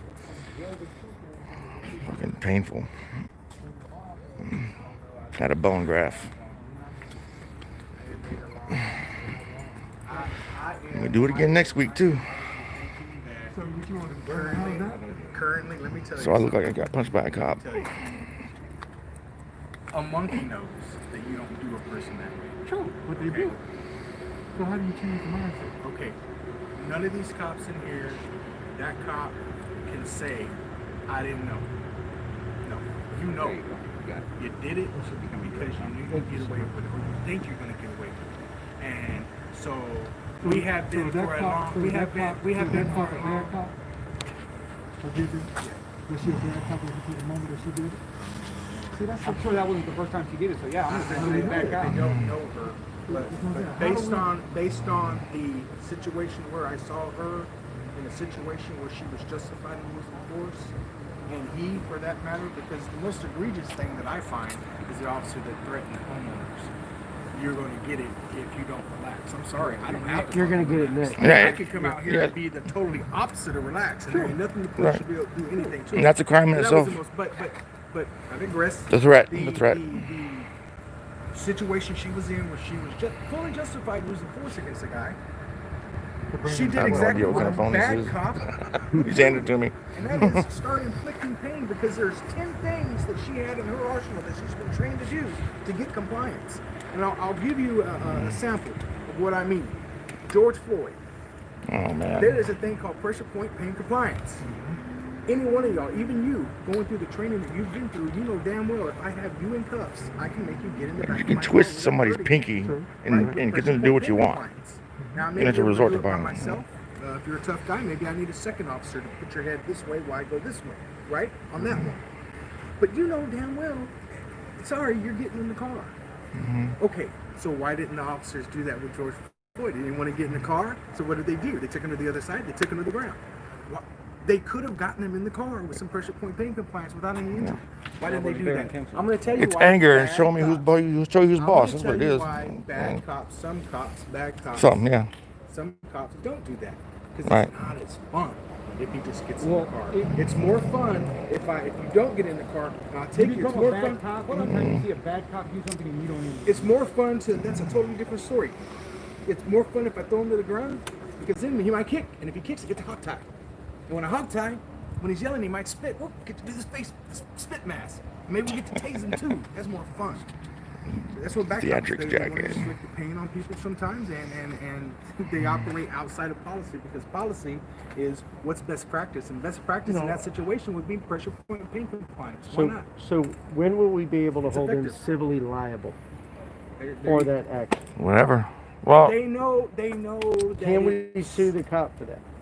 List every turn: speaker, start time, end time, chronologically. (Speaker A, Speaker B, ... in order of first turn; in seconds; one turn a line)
Speaker A: 0.5-2.3
Speaker B: 1.9-2.9
Speaker A: 3.8-4.9
Speaker B: 5.3-6.3
Speaker A: 6.3-7.1
Speaker C: 8.0-8.6
Speaker A: 8.1-10.2
Speaker C: 10.0-13.6
Speaker B: 10.9-12.2
Speaker A: 13.5-15.4
Speaker C: 14.2-16.7
Speaker B: 16.1-17.8
Speaker C: 17.4-18.2
Speaker C: 19.9-23.6
Speaker D: 22.6-23.6
Speaker A: 24.5-25.7
Speaker C: 25.8-26.2
Speaker C: 26.7-31.7
Speaker C: 32.6-33.6
Speaker D: 33.2-34.3
Speaker C: 34.4-43.5
Speaker D: 34.9-36.6
Speaker A: 40.4-43.7
Speaker D: 42.9-43.3
Speaker A: 45.0-45.5
Speaker C: 45.6-45.9
Speaker A: 46.1-48.0
Speaker C: 48.1-49.1
Speaker D: 48.9-52.0
Speaker C: 50.9-60.7
Speaker A: 51.1-52.0
Speaker B: 51.9-52.3
Speaker A: 53.1-54.3
Speaker C: 61.2-66.7
Speaker C: 67.3-80.5
Speaker E: 69.6-72.0
Speaker B: 71.2-72.3
Speaker E: 74.1-74.3
Speaker B: 74.8-75.0
Speaker B: 75.9-77.0
Speaker B: 78.9-80.0
Speaker C: 81.3-85.2
Speaker A: 86.3-87.6
Speaker C: 86.4-101.0
Speaker B: 86.7-90.5
Speaker B: 101.7-102.4
Speaker C: 102.2-104.5
Speaker C: 105.3-112.5
Speaker B: 111.0-114.4
Speaker C: 113.0-122.0
Speaker B: 115.3-116.6
Speaker C: 122.8-124.0
Speaker C: 124.6-126.0
Speaker B: 126.3-126.7
Speaker C: 126.8-140.7
Speaker D: 138.0-139.4
Speaker B: 139.4-143.0
Speaker C: 141.3-144.9
Speaker B: 144.5-145.1
Speaker C: 145.5-154.0
Speaker B: 147.2-147.5
Speaker D: 149.4-150.1
Speaker D: 153.1-156.7
Speaker B: 154.5-154.8
Speaker C: 156.4-158.6
Speaker C: 159.2-163.3
Speaker C: 163.9-170.3
Speaker C: 171.1-182.9
Speaker B: 171.6-172.7
Speaker E: 179.8-180.2
Speaker E: 182.5-186.0
Speaker C: 184.4-185.0
Speaker C: 186.8-187.3
Speaker E: 187.0-187.8
Speaker B: 187.9-189.2
Speaker C: 189.0-191.5
Speaker E: 190.6-192.2